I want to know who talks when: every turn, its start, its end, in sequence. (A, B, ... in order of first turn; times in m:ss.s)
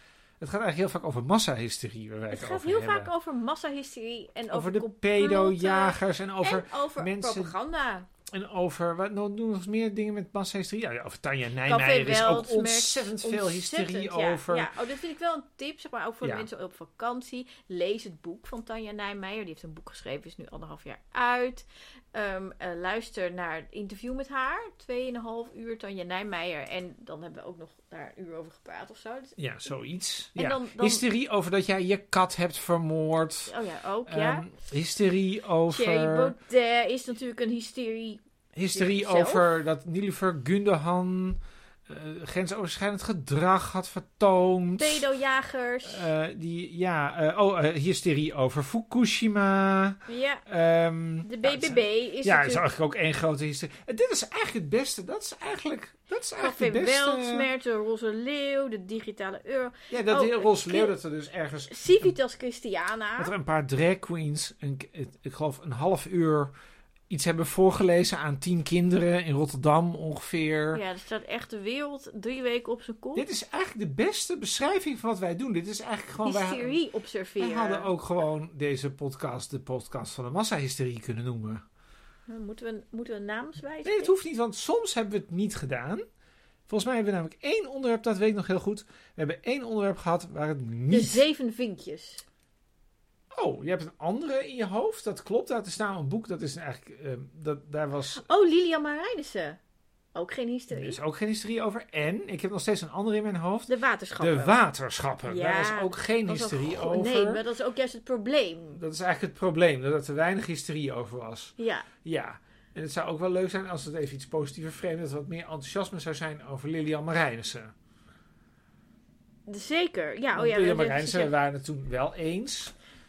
0:00.4-0:03.1 A
0:02.3-0:08.1 B
0:04.5-0:07.5 A
0:08.3-0:14.7 A
0:11.6-0:29.4 B
0:16.2-0:16.5 A
0:29.4-0:36.4 A
0:30.4-0:31.0 B
0:33.5-0:34.4 B
0:35.7-0:39.4 B
0:38.6-0:45.1 A
0:44.8-0:46.1 B
0:45.8-0:57.5 A
0:50.1-0:50.4 B
0:51.2-0:52.6 B
0:56.4-1:00.9 B
0:59.9-1:02.1 A
1:01.7-1:03.3 B
1:03.2-1:06.5 A
1:07.1-1:10.8 A
1:10.7-1:13.2 B
1:13.1-1:16.8 A
1:16.2-1:17.9 B
1:17.4-1:21.6 A
1:22.3-1:24.1 B
1:23.8-1:26.0 A
1:26.7-1:31.2 A
1:30.9-1:32.2 B
1:33.3-1:38.2 A
1:38.2-1:39.6 B
1:40.1-1:41.0 B
1:40.7-1:47.4 A
1:43.7-1:44.6 B
1:45.2-1:48.8 B
1:48.7-1:57.7 A
1:51.6-1:51.9 B
1:59.5-2:01.3 B
2:00.3-2:02.7 A